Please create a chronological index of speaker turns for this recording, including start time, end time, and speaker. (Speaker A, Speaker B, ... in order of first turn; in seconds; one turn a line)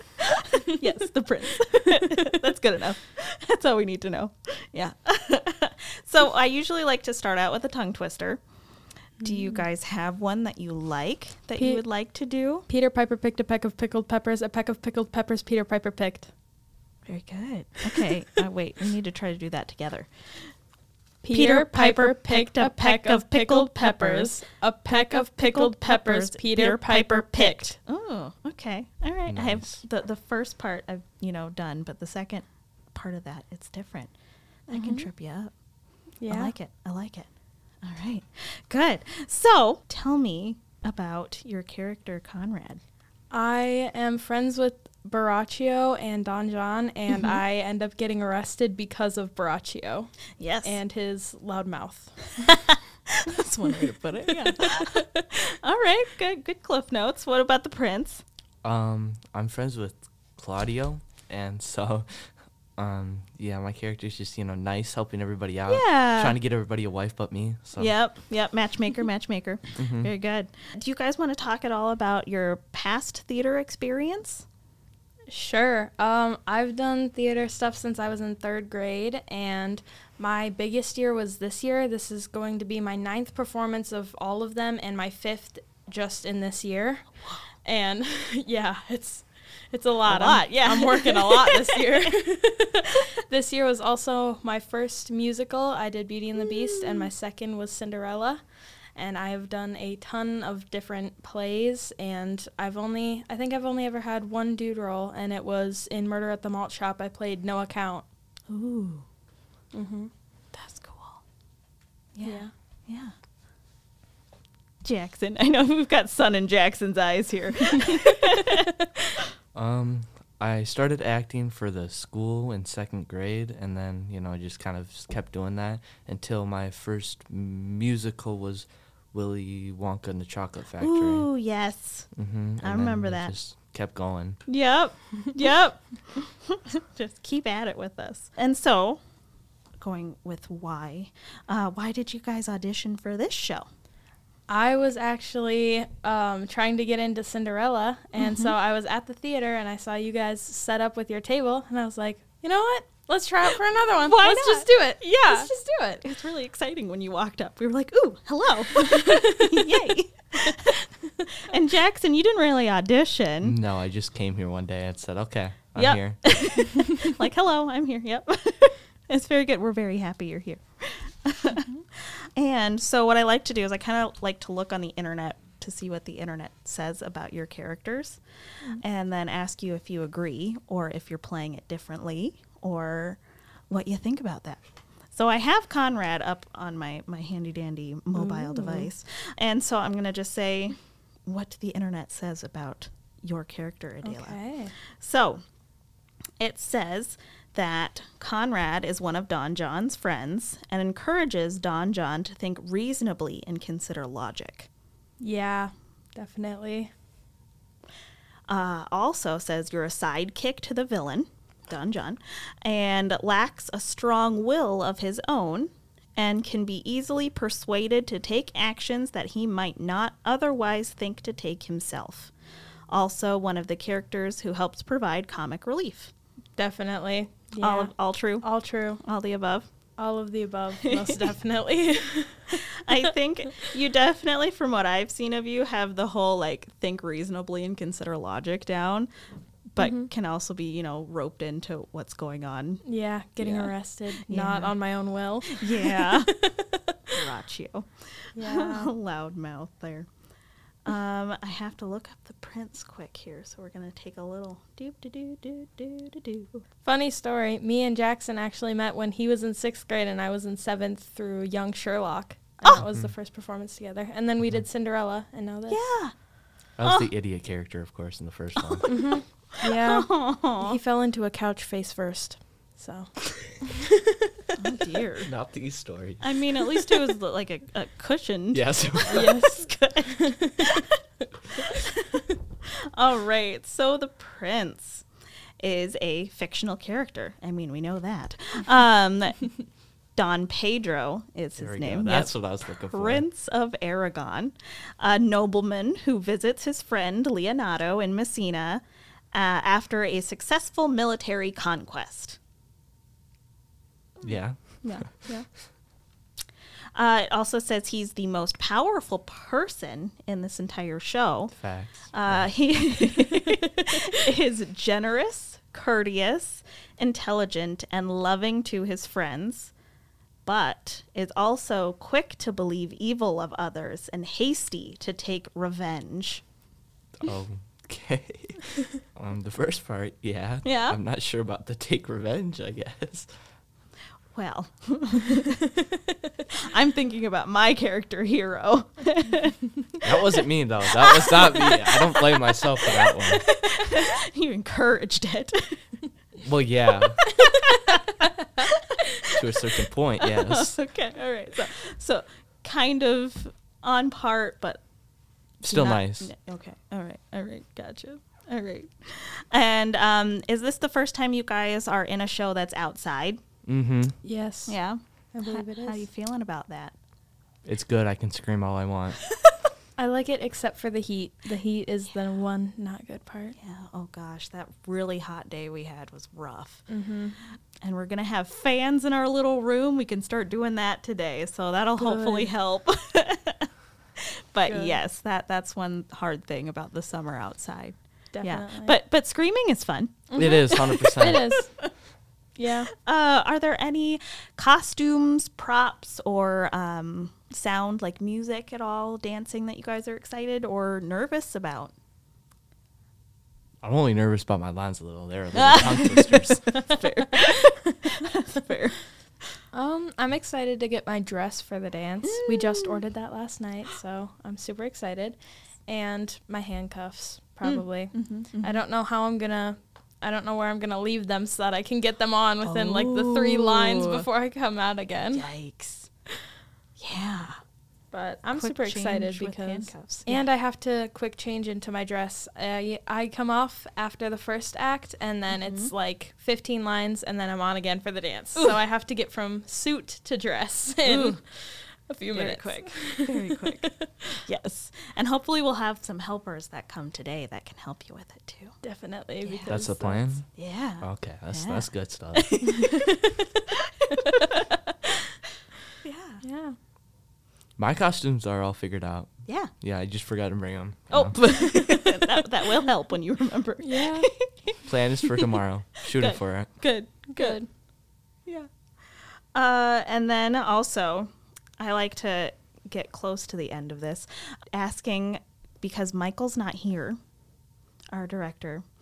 Speaker A: 0.6-8.4
Speaker A: 9.2-12.7
Speaker B: 9.2-9.6
Speaker B: 11.6-11.8
Speaker B: 12.7-16.3
Speaker A: 17.1-20.5
Speaker B: 21.2-27.7
Speaker A: 21.3-24.4
Speaker A: 24.9-34.1
Speaker C: 29.3-29.8
Speaker A: 34.7-35.5
Speaker B: 34.7-35.1
Speaker B: 36.2-36.5
Speaker A: 36.2-37.3
Speaker A: 37.8-42.8
Speaker B: 43.3-50.1
Speaker A: 47.1-47.4
Speaker A: 50.4-50.8
Speaker B: 50.6-52.3
Speaker A: 53.3-58.2
Speaker B: 54.4-55.0
Speaker C: 58.6-62.1
Speaker C: 62.8-67.9
Speaker A: 65.7-66.4
Speaker A: 67.8-74.4
Speaker C: 69.8-70.1
Speaker B: 75.3-87.1
Speaker B: 87.6-98.4
Speaker A: 90.0-92.2
Speaker A: 96.4-97.1
Speaker B: 99.0-108.0
Speaker A: 108.5-109.0
Speaker B: 109.7-110.1
Speaker A: 110.5-111.2
Speaker A: 112.1-113.1
Speaker B: 112.2-112.5
Speaker A: 114.8-118.7
Speaker B: 117.9-118.6
Speaker C: 119.5-131.3
Speaker A: 130.8-133.3
Speaker C: 132.1-134.4
Speaker A: 134.5-139.0
Speaker A: 139.8-143.7
Speaker B: 144.5-156.0
Speaker A: 148.2-148.5
Speaker A: 153.9-160.8
Speaker B: 158.9-159.6
Speaker A: 161.5-163.6
Speaker C: 163.4-166.2
Speaker A: 165.8-178.2
Speaker A: 178.7-184.6
Speaker A: 185.1-194.4
Speaker B: 188.1-188.9
Speaker B: 194.0-194.7
Speaker A: 195.0-195.4
Speaker A: 196.4-204.7
Speaker B: 205.2-206.9
Speaker A: 208.5-222.3
Speaker A: 222.9-226.1
Speaker B: 226.6-229.0
Speaker A: 227.6-228.5
Speaker A: 229.0-229.7
Speaker B: 230.0-233.1
Speaker A: 232.9-239.1
Speaker A: 239.7-242.8
Speaker B: 239.8-240.1
Speaker B: 242.8-246.9
Speaker A: 243.4-244.7
Speaker A: 245.5-246.3
Speaker A: 247.2-250.1
Speaker B: 248.3-248.9
Speaker A: 250.8-256.6
Speaker B: 256.8-265.8
Speaker C: 262.8-263.1
Speaker A: 265.7-266.1
Speaker C: 266.8-269.0
Speaker A: 266.8-267.1
Speaker A: 268.7-270.8
Speaker B: 268.8-273.9
Speaker A: 274.6-275.3
Speaker C: 275.2-276.4
Speaker A: 276.2-279.9
Speaker C: 278.5-279.3
Speaker B: 279.1-280.7
Speaker A: 282.9-285.0
Speaker A: 285.6-289.6
Speaker A: 290.1-302.4
Speaker C: 291.6-293.2
Speaker C: 304.2-305.0
Speaker A: 304.8-305.4
Speaker A: 306.9-311.6
Speaker C: 311.5-312.5
Speaker A: 312.1-319.7
Speaker A: 320.4-326.4
Speaker C: 327.2-333.3
Speaker A: 330.6-331.0
Speaker A: 334.3-335.4
Speaker A: 336.5-339.6
Speaker C: 340.0-343.4
Speaker A: 340.9-345.8
Speaker C: 346.4-347.2
Speaker A: 348.6-349.3
Speaker C: 349.3-350.8
Speaker A: 350.2-354.8
Speaker C: 355.6-356.3
Speaker A: 355.6-363.4
Speaker C: 363.6-364.1
Speaker B: 364.2-364.8
Speaker A: 364.7-366.9
Speaker B: 365.3-366.1
Speaker C: 367.6-369.2
Speaker B: 370.0-373.5
Speaker A: 373.6-376.9
Speaker B: 376.9-377.4
Speaker A: 377.8-390.2
Speaker B: 382.0-382.5
Speaker B: 384.7-385.0
Speaker B: 388.3-389.0
Speaker B: 390.3-391.7
Speaker C: 390.4-391.5
Speaker A: 391.2-391.5
Speaker B: 392.6-392.9
Speaker A: 393.0-401.9
Speaker C: 403.8-406.7
Speaker A: 405.5-408.9
Speaker B: 409.7-425.5
Speaker A: 412.3-413.0
Speaker A: 417.6-418.8
Speaker A: 422.6-424.2
Speaker A: 425.3-426.1
Speaker A: 427.0-427.6
Speaker B: 428.1-444.2
Speaker A: 428.5-430.4
Speaker A: 435.5-435.9
Speaker A: 441.0-441.4
Speaker A: 442.3-443.8
Speaker A: 444.4-448.7
Speaker B: 448.8-450.4
Speaker A: 449.4-449.7
Speaker C: 449.7-450.5
Speaker A: 450.6-452.9
Speaker C: 451.0-452.5
Speaker B: 452.6-453.4
Speaker B: 454.1-454.5
Speaker A: 456.0-456.4
Speaker B: 456.4-456.8
Speaker C: 457.8-461.4
Speaker A: 459.4-459.7
Speaker A: 461.1-464.8
Speaker B: 463.8-464.3
Speaker C: 464.9-466.7
Speaker A: 466.2-467.6
Speaker B: 467.3-467.7
Speaker A: 469.5-477.2
Speaker A: 478.1-478.9